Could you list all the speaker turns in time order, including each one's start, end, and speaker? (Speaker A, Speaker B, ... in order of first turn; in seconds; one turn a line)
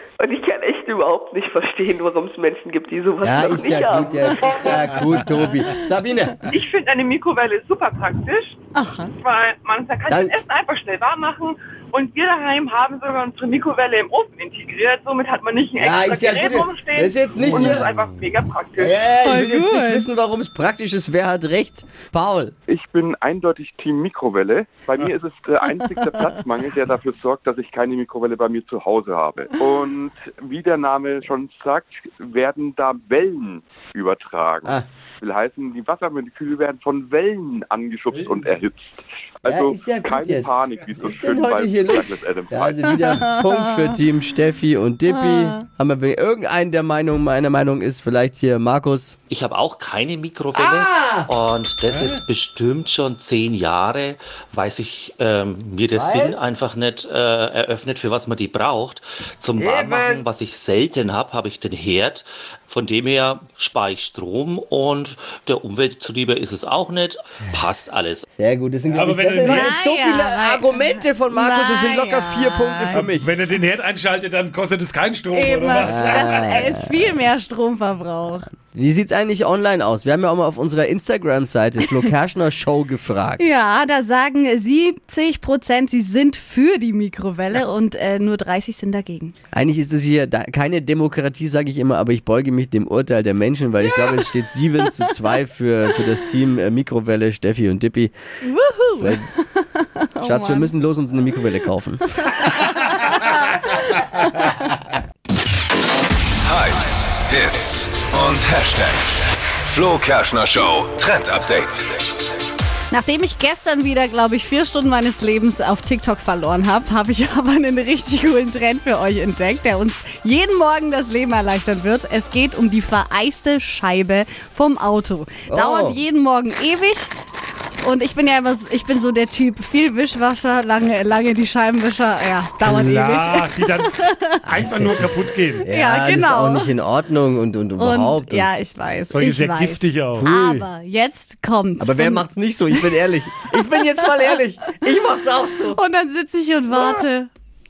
Speaker A: 0.2-4.8
Speaker B: 3.2-6.4
Speaker C: 6.5-8.6
Speaker D: 8.7-9.1
Speaker C: 9.2-19.0
Speaker B: 10.1-10.3
Speaker B: 15.8-17.9
Speaker E: 17.5-18.1
Speaker B: 18.8-22.5
Speaker D: 19.2-20.1
Speaker F: 22.7-43.0
Speaker B: 39.5-49.2
Speaker D: 43.0-43.9
Speaker D: 45.2-45.6
Speaker G: 49.3-68.2
Speaker B: 50.5-51.3
Speaker B: 51.9-52.2
Speaker B: 55.9-56.4
Speaker B: 59.5-60.2
Speaker B: 68.3-73.3
Speaker E: 68.9-69.8
Speaker D: 69.4-73.1
Speaker E: 72.9-76.4
Speaker D: 75.3-78.5
Speaker B: 75.8-77.1
Speaker B: 78.7-83.4
Speaker D: 83.4-89.3
Speaker B: 89.5-98.1
Speaker D: 98.4-100.7
Speaker B: 99.0-99.3
Speaker B: 100.2-102.5
Speaker D: 102.2-104.0
Speaker H: 106.4-112.0
Speaker D: 112.9-127.1
Speaker B: 125.5-126.0
Speaker D: 127.8-134.4
Speaker E: 132.6-135.6
Speaker B: 134.5-138.5
Speaker D: 135.7-136.7
Speaker D: 137.8-142.9
Speaker E: 139.1-140.3
Speaker B: 140.2-140.7
Speaker B: 141.8-145.8
Speaker D: 143.7-144.0
Speaker D: 145.7-147.3